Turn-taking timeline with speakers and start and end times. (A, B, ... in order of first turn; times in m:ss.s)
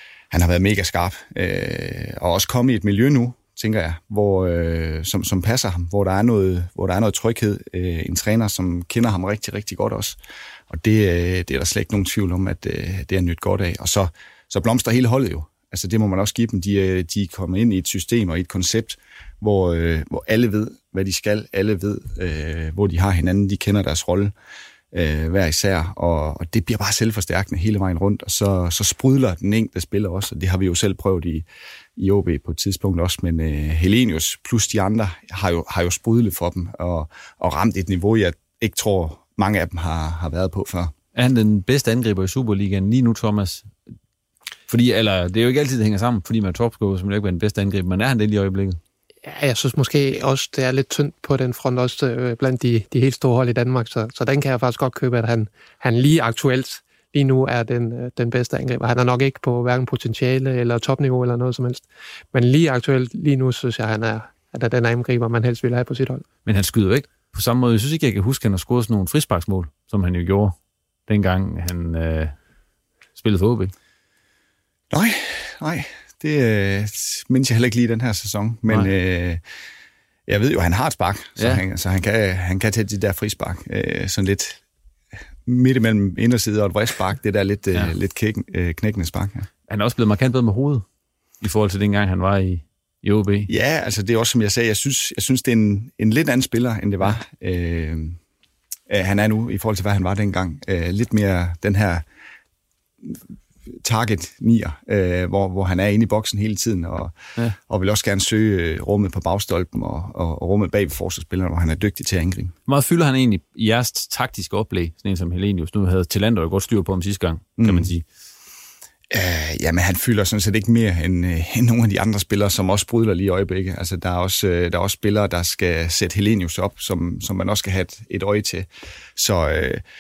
0:00.3-0:10.2 A
0:10.7-0:24.3 A
0:24.9-0:31.5 A
0:32.0-0:40.9 A
0:41.2-0:43.7 B
0:44.7-0:48.8 B
0:49.2-1:06.2 C
1:06.5-1:10.6 B
1:11.1-1:12.4 B
1:13.2-1:13.7 B
1:14.9-1:19.4 A
1:20.3-1:24.6 A
1:21.4-1:21.6 B
1:25.4-1:29.5 A
1:29.7-1:30.8 B
1:31.4-1:33.5 B
1:33.5-1:38.2 A
1:38.9-1:42.0 A
1:43.0-1:47.2 A
1:47.7-1:52.5 A
1:52.7-1:58.0 B
1:57.6-1:57.9 A
1:59.1-2:09.8 A